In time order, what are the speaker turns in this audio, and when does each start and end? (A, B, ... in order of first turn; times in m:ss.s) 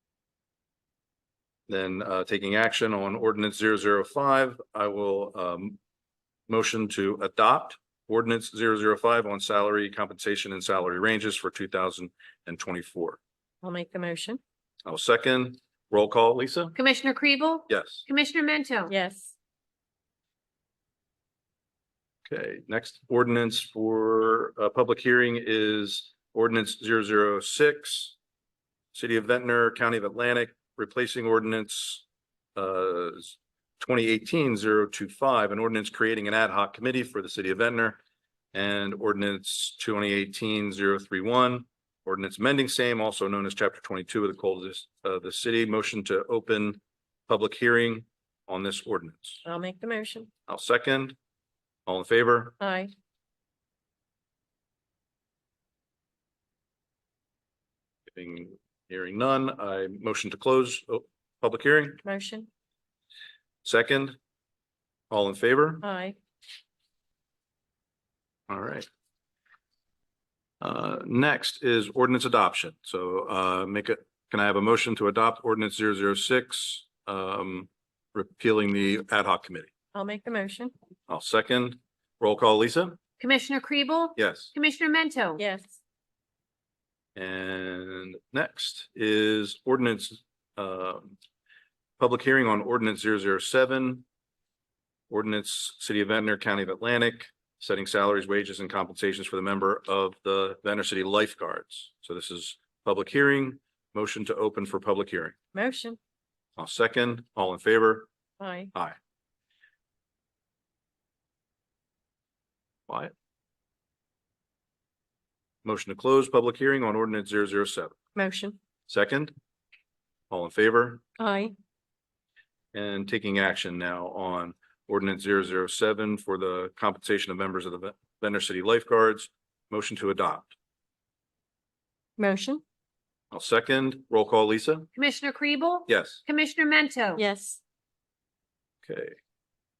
0:01.7-0:05.8 A
0:06.5-0:13.2 A
0:13.6-0:14.4 B
0:14.8-0:16.7 A
0:16.7-0:18.9 C
0:17.7-0:18.0 A
0:18.9-0:19.3 B
0:22.3-0:28.1 A
0:28.9-0:32.0 A
0:32.6-0:38.0 A
0:38.5-0:49.4 A
0:49.4-0:50.3 B
0:50.5-0:51.1 A
0:51.8-0:52.6 A
0:52.6-0:52.9 B
0:58.1-1:02.0 A
1:02.0-1:02.5 B
1:03.6-1:04.2 A
1:05.1-1:05.8 A
1:05.8-1:06.2 B
1:08.5-1:08.9 A
1:10.6-1:19.7 A
1:19.9-1:20.7 B
1:21.1-1:23.0 A
1:23.2-1:25.4 C
1:24.2-1:24.5 A
1:25.4-1:25.7 B
1:27.2-1:31.2 A
1:32.0-1:34.0 A
1:35.1-1:45.3 A
1:45.5-1:46.0 B
1:46.6-1:48.1 A
1:48.4-1:48.7 B
1:52.9-1:53.1 A
1:55.6-1:57.9 A
1:58.1-1:58.6 B
1:58.9-1:59.3 A
2:00.3-2:01.0 A
2:01.2-2:01.5 B
2:02.7-2:10.5 A
2:12.2-2:12.6 B
2:13.3-2:14.9 A
2:14.9-2:17.2 C
2:15.9-2:16.2 A
2:17.2-2:17.6 B
2:18.8-2:19.2 A